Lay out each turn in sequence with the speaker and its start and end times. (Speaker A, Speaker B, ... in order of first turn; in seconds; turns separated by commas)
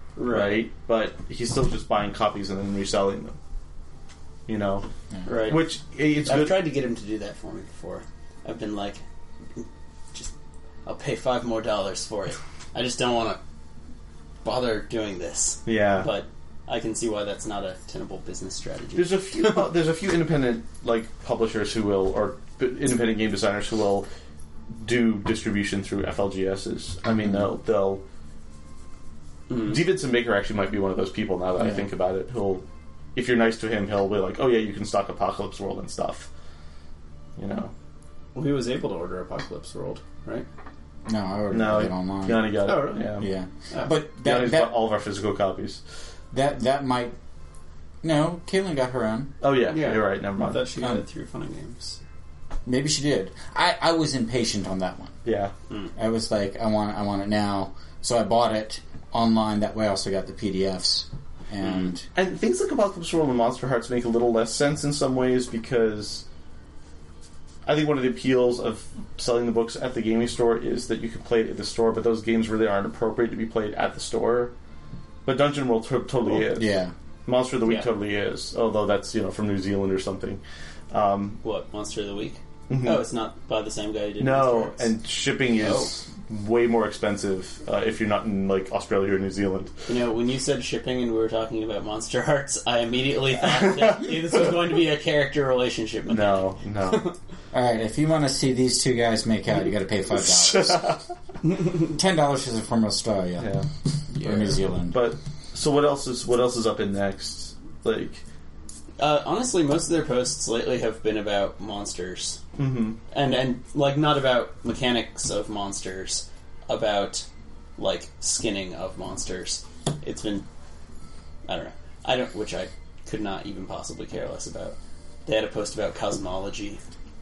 Speaker A: 0.1-0.7, Speaker B: 0.3-3.4, Speaker B: 4.5-4.8, Speaker A: 5.2-5.7, Speaker B: 5.4-6.5, Speaker A: 6.2-9.0, Speaker A: 9.6-10.3, Speaker A: 10.8-13.4, Speaker A: 14.4-19.7, Speaker B: 15.7-16.1, Speaker B: 18.9-24.1, Speaker B: 24.8-28.0, Speaker A: 29.5-29.8, Speaker B: 29.5-36.3, Speaker C: 31.6-31.8, Speaker B: 37.4-37.7, Speaker A: 38.3-40.5, Speaker C: 41.0-42.6, Speaker B: 41.5-43.3, Speaker A: 42.6-43.1, Speaker C: 43.2-44.8, Speaker B: 44.2-45.8, Speaker C: 46.3-47.1, Speaker C: 48.0-49.3, Speaker B: 49.4-50.7, Speaker A: 49.7-52.0, Speaker C: 52.6-55.1, Speaker B: 55.2-55.5, Speaker C: 56.0-62.0, Speaker B: 62.1-66.2, Speaker B: 67.7-74.5, Speaker B: 75.2-81.4, Speaker C: 76.5-76.9, Speaker A: 81.4-84.9, Speaker B: 82.7-83.0, Speaker B: 84.2-89.8, Speaker A: 85.6-85.9, Speaker A: 89.9-97.1, Speaker B: 93.5-94.3, Speaker B: 96.1-97.1, Speaker C: 97.5-103.5, Speaker B: 100.1-101.0, Speaker B: 103.4-103.7, Speaker A: 104.1-104.6, Speaker C: 104.2-105.0, Speaker B: 104.9-108.2, Speaker A: 109.0-112.4, Speaker B: 112.6-113.0, Speaker A: 113.1-117.2, Speaker A: 117.8-120.4, Speaker A: 121.5-126.8